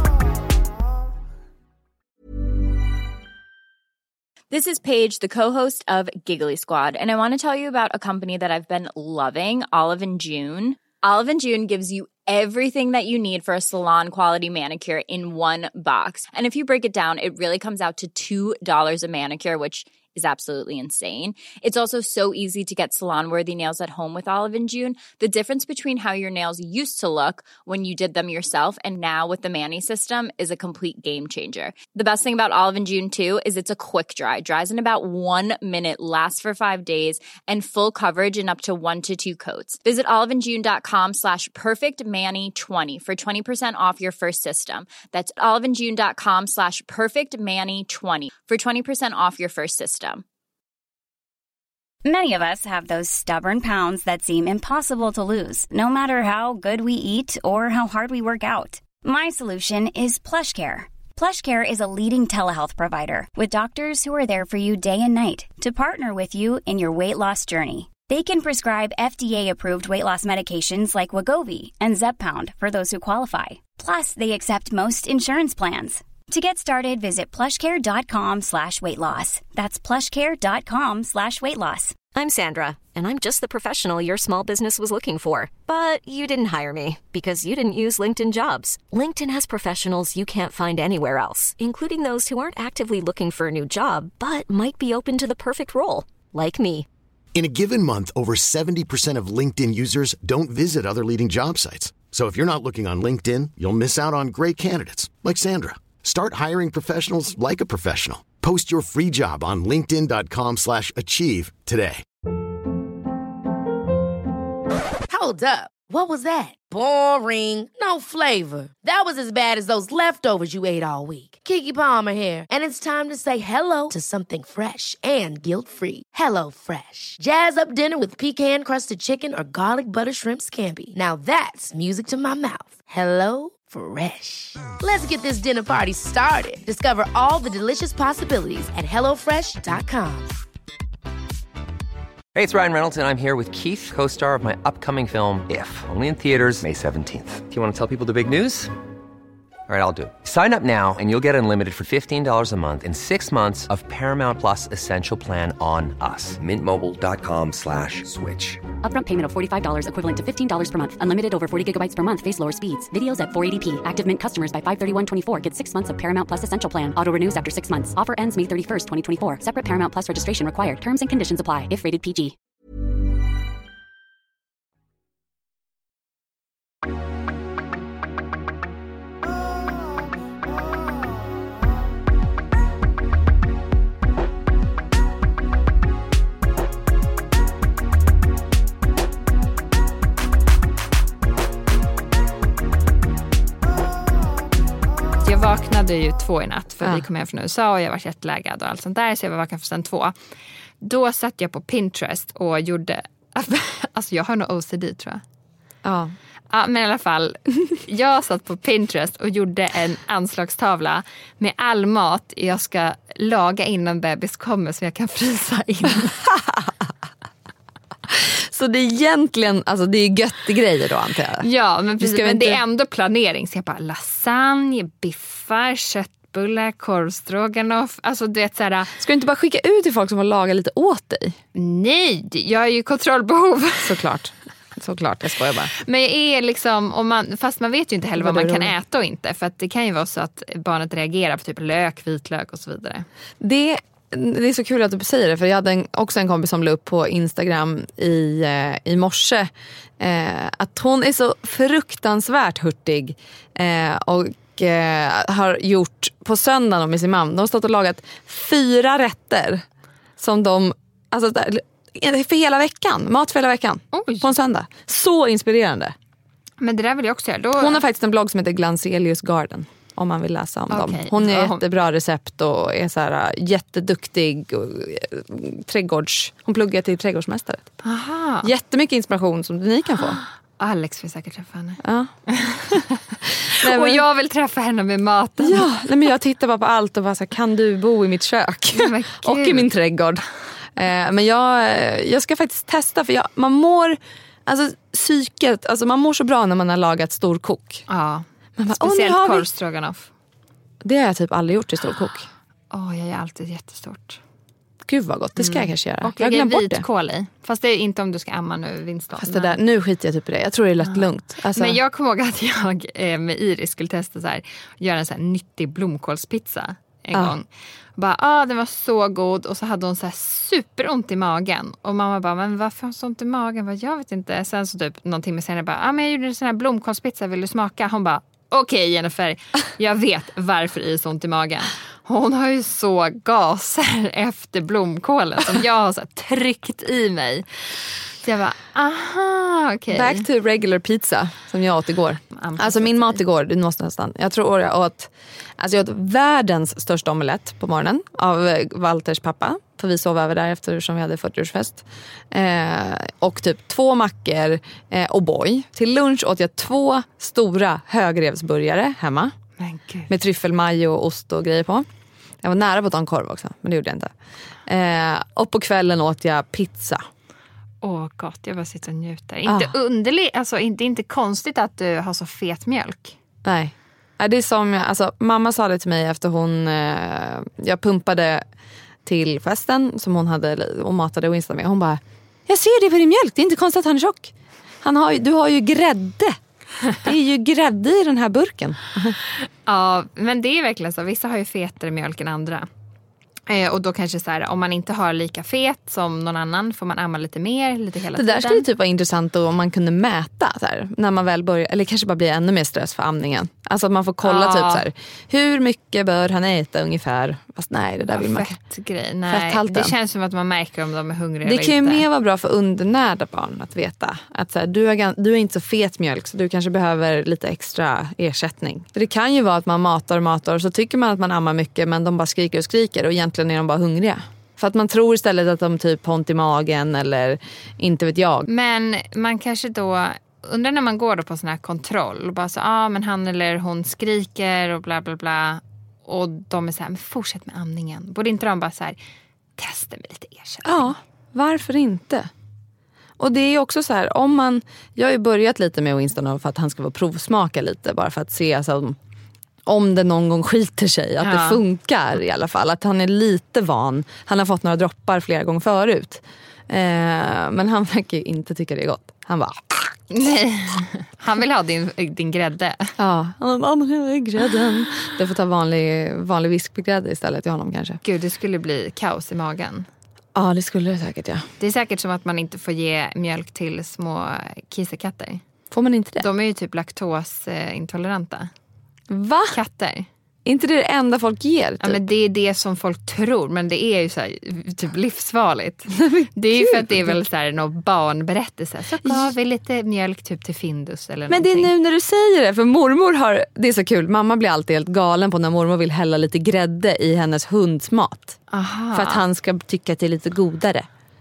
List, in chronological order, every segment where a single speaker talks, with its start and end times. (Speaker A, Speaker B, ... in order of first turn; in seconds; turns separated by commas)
Speaker A: 4.5-50.2, Speaker B: 52.0-82.0, Speaker C: 82.1-96.8, Speaker D: 97.3-112.0, Speaker E: 115.1-140.3, Speaker F: 142.3-148.7, Speaker F: 149.7-158.7, Speaker G: 158.8-172.3, Speaker H: 195.2-200.1, Speaker H: 200.8-205.2, Speaker I: 205.8-206.1, Speaker H: 206.5-216.2, Speaker I: 216.4-216.6, Speaker I: 218.1-222.6, Speaker H: 221.4-228.9, Speaker I: 229.0-231.4, Speaker H: 231.5-234.0, Speaker I: 233.8-235.7, Speaker H: 235.8-243.1, Speaker I: 238.2-238.7, Speaker I: 243.4-259.6, Speaker I: 260.2-265.9, Speaker H: 263.9-264.3, Speaker H: 266.6-267.8, Speaker I: 267.6-277.7, Speaker H: 270.7-271.6, Speaker H: 277.8-278.5, Speaker I: 278.4-280.2, Speaker H: 280.2-285.7, Speaker I: 281.8-282.1, Speaker I: 283.6-284.0, Speaker I: 285.4-290.2, Speaker H: 288.7-289.7, Speaker I: 290.8-297.8, Speaker H: 297.9-300.1, Speaker I: 298.6-299.5, Speaker I: 300.8-302.3, Speaker H: 302.7-304.2, Speaker I: 304.8-306.9, Speaker H: 305.4-309.6, Speaker I: 309.2-311.8, Speaker H: 310.8-337.6, Speaker H: 338.2-340.2, Speaker I: 339.9-359.3, Speaker H: 342.3-343.2, Speaker H: 359.6-360.1, Speaker I: 360.1-361.9, Speaker I: 362.4-364.1, Speaker I: 364.6-367.0, Speaker H: 367.8-373.1, Speaker I: 369.4-369.7, Speaker I: 373.4-378.4, Speaker I: 379.0-386.4, Speaker I: 387.0-389.2, Speaker H: 389.6-392.7, Speaker H: 393.5-398.6, Speaker I: 398.1-408.5, Speaker H: 404.2-404.8, Speaker H: 408.1-412.0, Speaker I: 409.3-409.9, Speaker I: 411.4-428.4, Speaker H: 428.5-439.0, Speaker H: 439.6-441.0, Speaker I: 440.6-442.3, Speaker I: 443.2-449.0, Speaker I: 449.6-459.9, Speaker H: 451.2-451.6, Speaker H: 460.1-462.9, Speaker I: 463.0-468.0, Speaker H: 468.0-469.9, Speaker I: 470.3-471.4, Speaker H: 471.6-475.4, Speaker I: 475.7-476.3, Speaker H: 476.2-478.5, Speaker I: 479.1-479.6, Speaker H: 479.5-480.1, Speaker I: 480.4-482.0, Speaker H: 481.8-491.7, Speaker I: 486.0-487.2, Speaker I: 489.0-489.3, Speaker I: 491.3-498.4, Speaker H: 498.5-499.2, Speaker I: 498.9-500.9